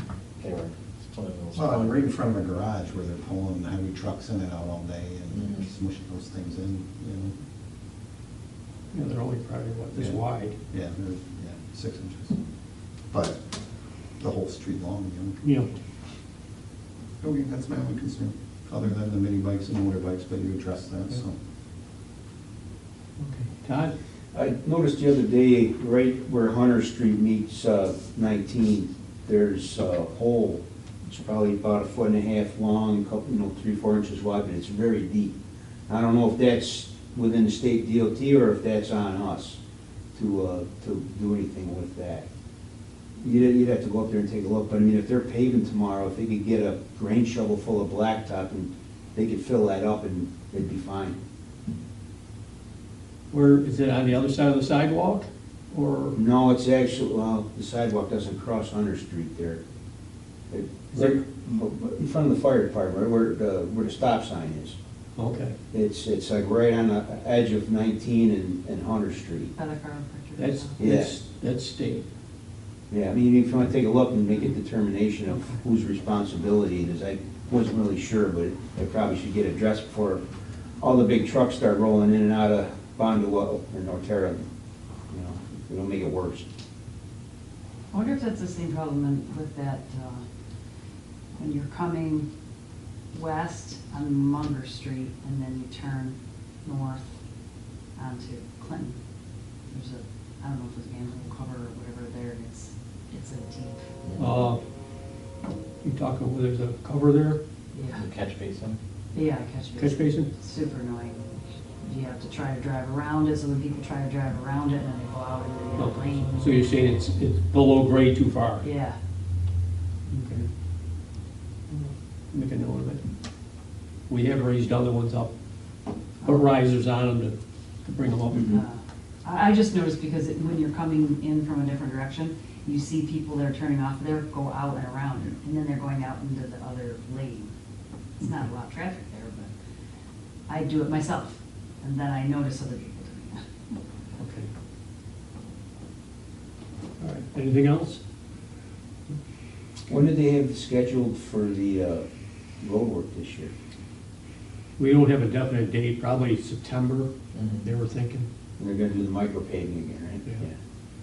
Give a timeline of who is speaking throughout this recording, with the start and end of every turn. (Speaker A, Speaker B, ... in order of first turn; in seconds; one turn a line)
Speaker A: 0.4-2.0
Speaker B: 1.5-7.3
Speaker A: 5.3-5.7
Speaker C: 8.9-10.6
Speaker B: 9.9-12.4
Speaker B: 13.1-13.6
Speaker B: 14.2-15.4
Speaker C: 15.4-15.7
Speaker B: 17.2-21.4
Speaker C: 23.2-23.9
Speaker D: 24.3-35.4
Speaker D: 35.9-39.6
Speaker D: 40.1-42.3
Speaker D: 43.2-51.2
Speaker C: 53.3-56.2
Speaker D: 56.1-59.6
Speaker D: 60.5-64.8
Speaker C: 60.9-61.2
Speaker C: 65.2-65.5
Speaker D: 65.7-69.5
Speaker E: 69.5-70.9
Speaker C: 70.4-72.1
Speaker D: 70.8-71.2
Speaker D: 72.9-80.2
Speaker C: 75.3-75.6
Speaker D: 80.8-84.5
Speaker D: 85.1-86.4
Speaker E: 87.9-90.2
Speaker E: 91.4-92.3
Speaker E: 93.1-97.1
Speaker E: 97.9-99.0
Speaker E: 99.7-103.9
Speaker A: 104.0-104.3
Speaker C: 104.2-104.6
Speaker C: 105.8-107.4
Speaker E: 107.7-108.1
Speaker A: 107.9-108.8
Speaker E: 109.1-116.7
Speaker C: 109.8-110.3
Speaker C: 115.8-118.7
Speaker E: 118.6-119.0
Speaker C: 120.1-120.5
Speaker C: 121.7-123.0
Speaker C: 124.1-125.3
Speaker E: 126.2-126.6
Speaker C: 126.2-128.6
Speaker D: 128.3-128.6
Speaker E: 128.4-137.5
Speaker E: 138.2-139.5
Speaker E: 140.5-143.8
Speaker C: 144.2-144.5
Speaker C: 147.0-148.0
Speaker D: 149.9-152.1
Speaker D: 152.6-153.5
Speaker C: 154.8-158.3
Speaker A: 157.3-157.7
Speaker D: 158.6-160.6